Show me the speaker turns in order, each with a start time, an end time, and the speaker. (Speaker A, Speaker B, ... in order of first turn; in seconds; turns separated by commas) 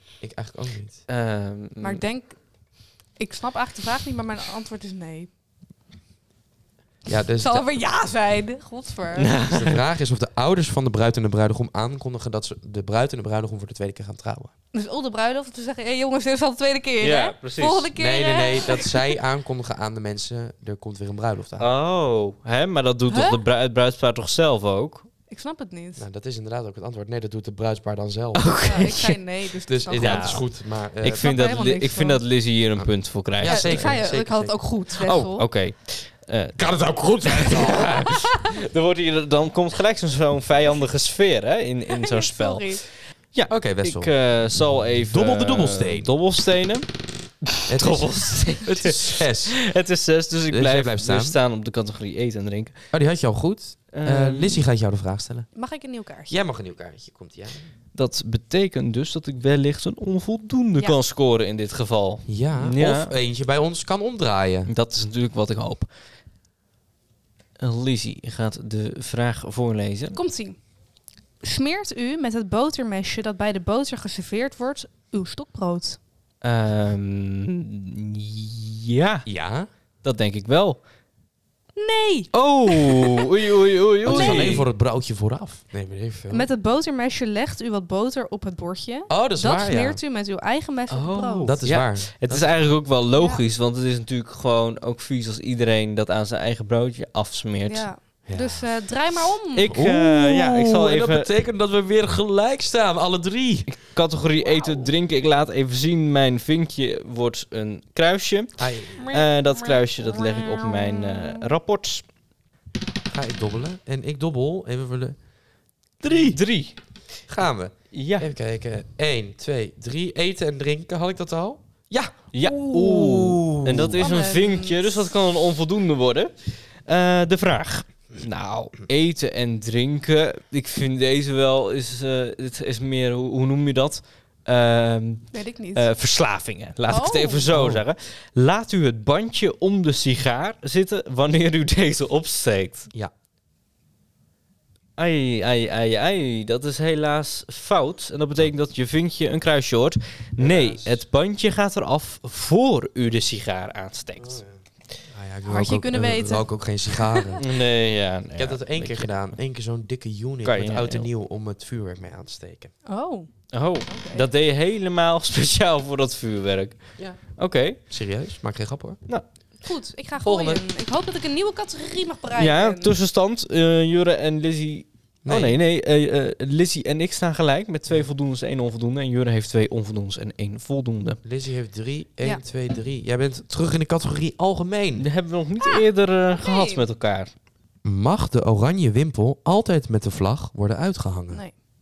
Speaker A: 0.2-1.0, Speaker B: 1.1-2.0, Speaker C: 1.8-2.5, Speaker C: 3.1-5.3, Speaker A: 7.0-7.7, Speaker C: 7.4-9.3, Speaker B: 9.2-9.8, Speaker A: 9.5-14.5, Speaker C: 14.7-19.0, Speaker B: 17.0-17.9, Speaker A: 17.9-21.7, Speaker B: 21.6-25.1, Speaker C: 23.1-23.4, Speaker C: 25.3-26.0, Speaker A: 26.0-28.6, Speaker B: 28.3-29.2, Speaker C: 28.6-30.4, Speaker A: 29.7-31.4, Speaker B: 29.9-30.5, Speaker B: 31.0-34.0, Speaker C: 31.0-32.2, Speaker A: 32.8-34.6, Speaker C: 33.4-35.5, Speaker B: 35.0-46.9, Speaker A: 36.6-38.2, Speaker C: 41.9-42.8, Speaker A: 43.5-44.1, Speaker A: 45.1-46.1, Speaker B: 47.4-52.7, Speaker A: 47.7-49.6, Speaker A: 50.5-51.4, Speaker A: 52.9-55.5, Speaker B: 53.9-54.6, Speaker C: 55.5-56.4, Speaker A: 56.3-57.7, Speaker B: 57.9-63.1, Speaker A: 62.3-64.7, Speaker B: 64.7-65.9, Speaker B: 67.6-70.2, Speaker C: 70.1-70.6, Speaker C: 71.4-76.0, Speaker B: 76.4-79.2, Speaker A: 79.2-79.7, Speaker B: 80.0-80.8, Speaker C: 81.8-83.2, Speaker B: 82.3-84.7, Speaker A: 84.0-86.5, Speaker C: 84.0-84.6, Speaker C: 86.3-91.5, Speaker A: 89.1-90.0, Speaker B: 90.9-97.9, Speaker A: 91.5-92.7, Speaker C: 93.1-93.4, Speaker C: 97.7-99.7, Speaker A: 98.2-98.7, Speaker B: 99.5-101.3, Speaker A: 99.7-103.7, Speaker B: 103.7-112.0, Speaker C: 104.4-104.9, Speaker A: 108.6-109.2, Speaker C: 109.0-111.5, Speaker A: 113.1-115.2, Speaker A: 116.0-116.4, Speaker B: 116.1-116.8, Speaker A: 117.3-124.0, Speaker B: 117.9-118.3, Speaker B: 122.3-126.3, Speaker C: 124.0-125.0, Speaker B: 126.8-142.9, Speaker C: 135.3-135.9, Speaker C: 136.9-137.5, Speaker A: 137.5-137.8, Speaker B: 145.0-154.4, Speaker A: 150.4-151.0, Speaker A: 154.2-154.5, Speaker A: 155.1-157.4, Speaker C: 155.5-157.4, Speaker B: 157.4-159.1, Speaker A: 158.3-162.7, Speaker B: 160.4-161.1, Speaker C: 162.8-163.3, Speaker B: 163.5-166.8, Speaker C: 163.8-164.2, Speaker B: 167.3-167.8, Speaker A: 167.9-169.0, Speaker C: 169.6-172.9, Speaker A: 170.2-170.6, Speaker B: 172.3-181.2, Speaker A: 175.2-175.6, Speaker A: 181.2-185.1, Speaker B: 185.0-187.3, Speaker C: 185.6-186.8, Speaker A: 187.8-191.4